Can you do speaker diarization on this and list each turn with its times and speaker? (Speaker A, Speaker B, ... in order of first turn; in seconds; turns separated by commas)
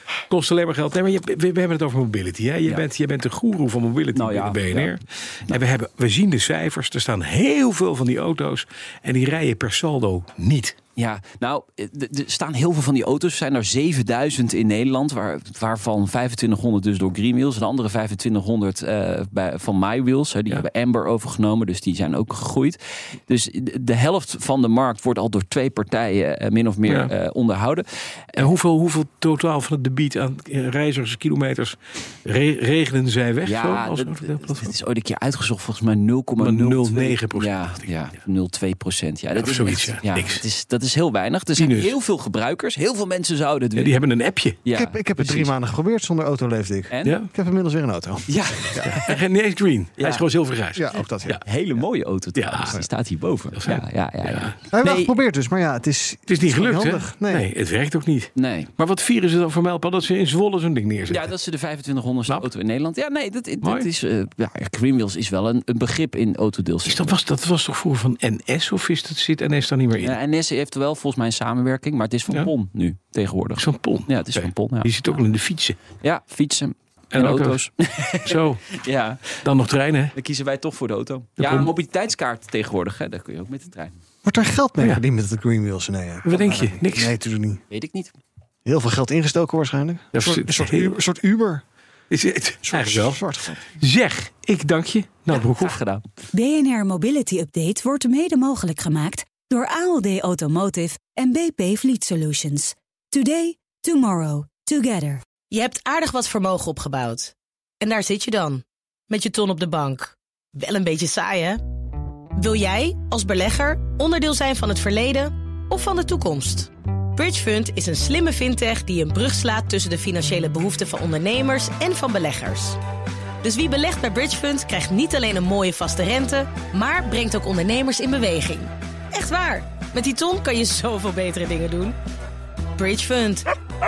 Speaker A: 0.3-10.8, Speaker B: 4.1-4.9, Speaker B: 11.0-28.5, Speaker A: 28.4-34.7, Speaker B: 33.4-44.0, Speaker A: 36.4-37.9, Speaker A: 39.4-40.4, Speaker A: 41.6-41.9, Speaker A: 43.8-44.6, Speaker B: 44.6-45.5, Speaker C: 44.7-48.9, Speaker B: 46.9-47.2, Speaker A: 47.0-47.3, Speaker B: 48.3-49.2, Speaker A: 48.8-51.4, Speaker B: 50.0-50.2, Speaker C: 50.7-51.4, Speaker B: 51.4-55.1, Speaker A: 52.3-52.9, Speaker A: 53.5-54.6, Speaker C: 54.7-57.4, Speaker A: 56.3-61.3, Speaker B: 58.4-58.7, Speaker B: 61.1-67.2, Speaker A: 66.8-70.2, Speaker B: 70.0-75.2, Speaker A: 73.6-75.8, Speaker B: 76.0-79.4, Speaker A: 77.1-77.6, Speaker A: 78.1-78.7, Speaker A: 79.4-80.1, Speaker B: 80.1-84.0, Speaker A: 81.4-81.7, Speaker C: 84.2-87.6, Speaker A: 86.2-87.1, Speaker B: 87.7-88.1, Speaker C: 88.6-91.6, Speaker A: 90.1-91.0, Speaker A: 92.1-93.2, Speaker C: 92.6-93.5, Speaker A: 93.7-95.8, Speaker B: 95.3-96.0, Speaker D: 96.3-105.2, Speaker E: 105.5-111.6, Speaker E: 112.4-122.8, Speaker E: 123.4-131.9, Speaker E: 132.8-133.5